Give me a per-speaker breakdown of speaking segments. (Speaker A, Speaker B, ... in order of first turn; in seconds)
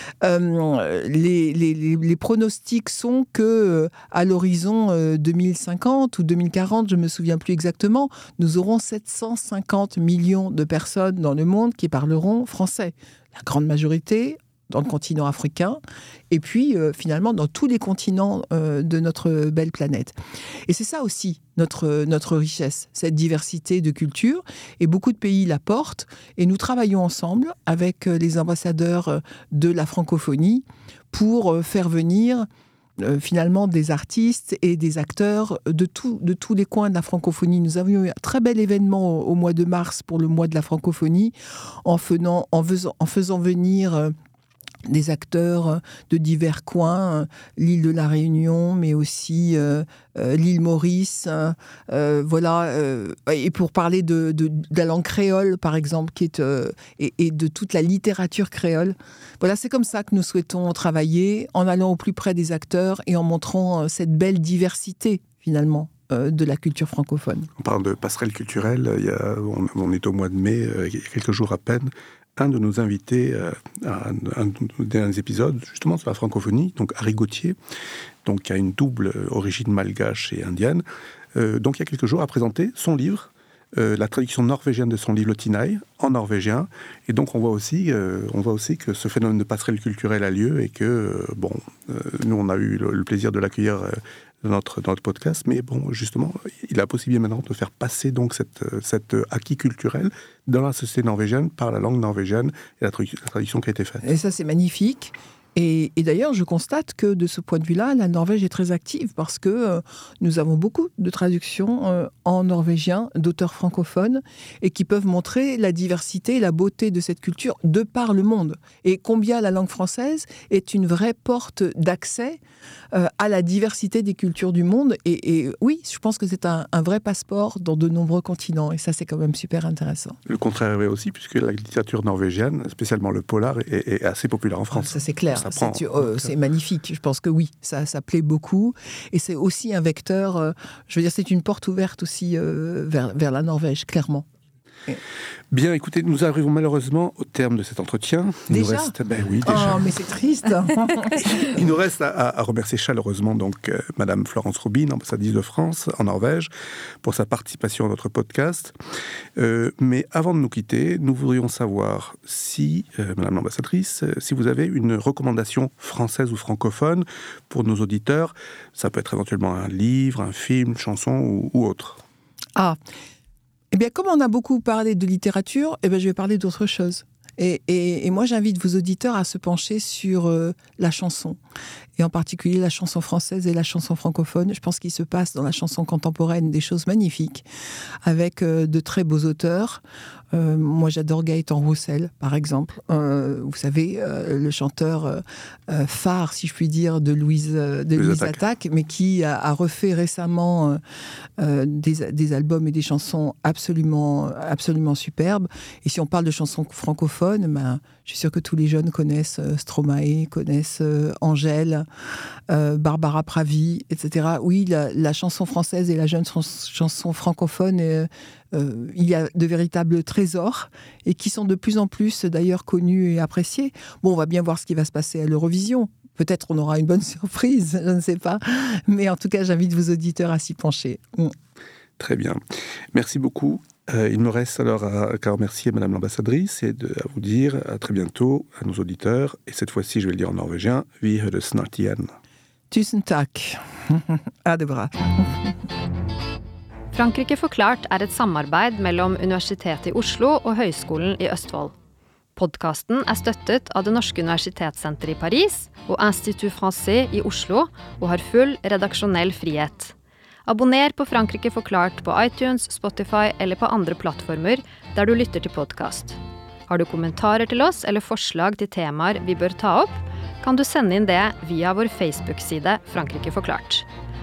Speaker A: 0.2-15.8, 16.3-20.1, 20.7-32.5, 33.0-41.3, 41.8-44.1, 44.9-67.5, 104.0-122.4, 122.9-130.2, 134.7-144.3, 148.5-151.5, 173.7-181.4, 182.0-187.4, 188.0-200.8, 201.4-211.8, 212.5-231.3, 242.7-245.5
Speaker B: 67.6-77.5, 78.2-80.8, 81.3-104.0, 130.2-136.3, 145.5-149.8, 151.1-156.5, 157.0-158.7, 159.3-172.0, 197.9-198.4, 232.0-232.4, 232.9-242.1
Speaker C: 246.9-251.7, 252.4-259.9, 260.4-273.9